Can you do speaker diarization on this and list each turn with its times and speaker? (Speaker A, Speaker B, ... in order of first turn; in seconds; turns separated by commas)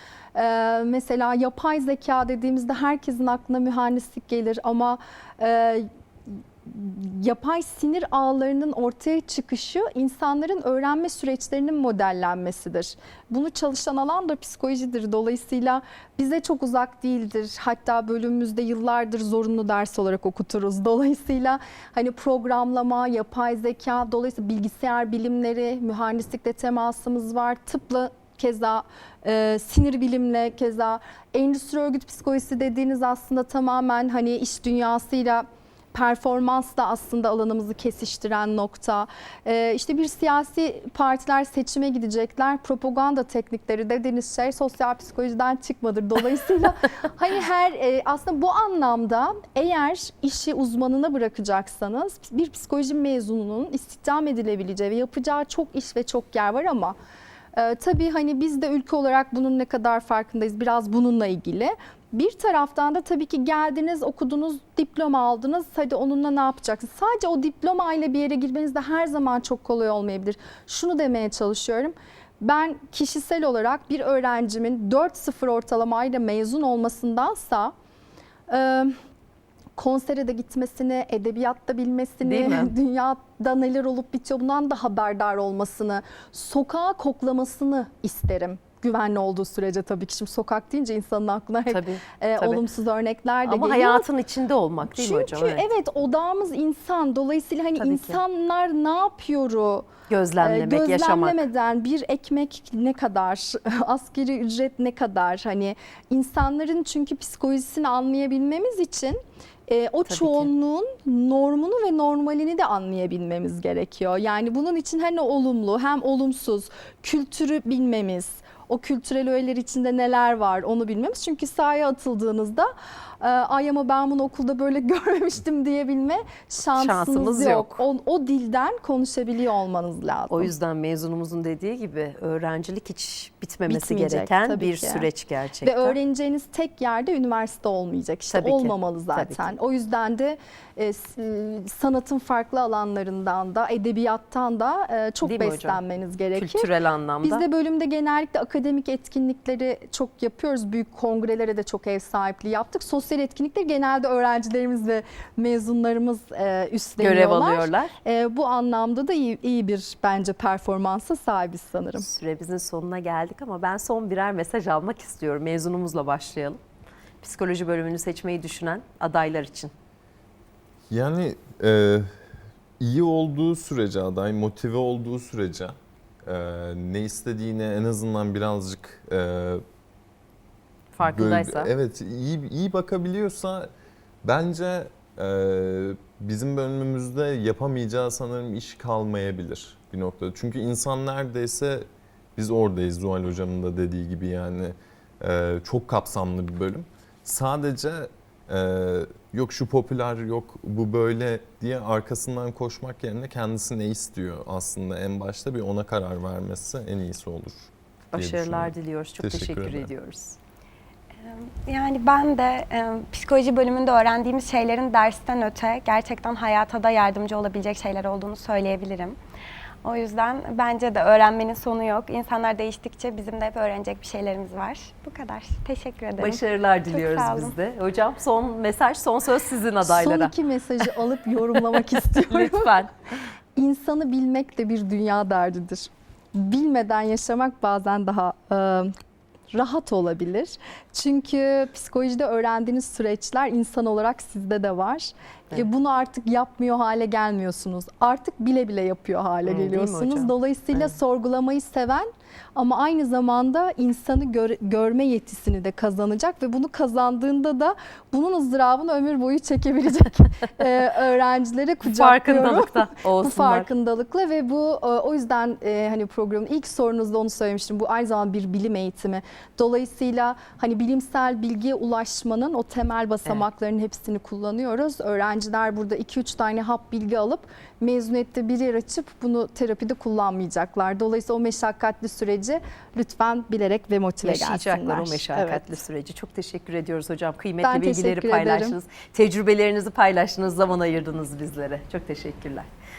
Speaker A: 0.3-57.0, Speaker A: 57.5-77.7, Speaker A: 78.5-79.0, Speaker A: 79.8-94.1, Speaker B: 82.2-82.7, Speaker B: 91.7-92.6, Speaker B: 93.5-95.7, Speaker A: 94.9-99.9, Speaker B: 97.8-98.2, Speaker B: 100.1-101.5, Speaker A: 100.4-130.5, Speaker B: 110.1-110.5, Speaker B: 126.7-127.8, Speaker B: 130.3-136.0, Speaker A: 133.7-135.1, Speaker A: 135.6-146.7, Speaker B: 138.3-139.5, Speaker B: 145.2-145.8, Speaker B: 146.3-147.4, Speaker A: 147.2-162.1, Speaker B: 157.0-157.9, Speaker B: 162.0-166.6, Speaker B: 167.2-169.7, Speaker C: 170.9-172.1, Speaker C: 172.8-179.6, Speaker B: 180.9-181.7, Speaker C: 181.0-183.7, Speaker C: 184.2-209.9, Speaker B: 208.1-210.4, Speaker D: 211.2-219.2, Speaker D: 219.8-227.6, Speaker B: 226.2-230.3, Speaker A: 229.8-232.8, Speaker B: 231.6-232.9, Speaker A: 233.6-238.9, Speaker A: 239.5-285.8, Speaker B: 249.4-250.9, Speaker B: 261.8-263.7, Speaker B: 284.2-292.7, Speaker A: 287.6-288.8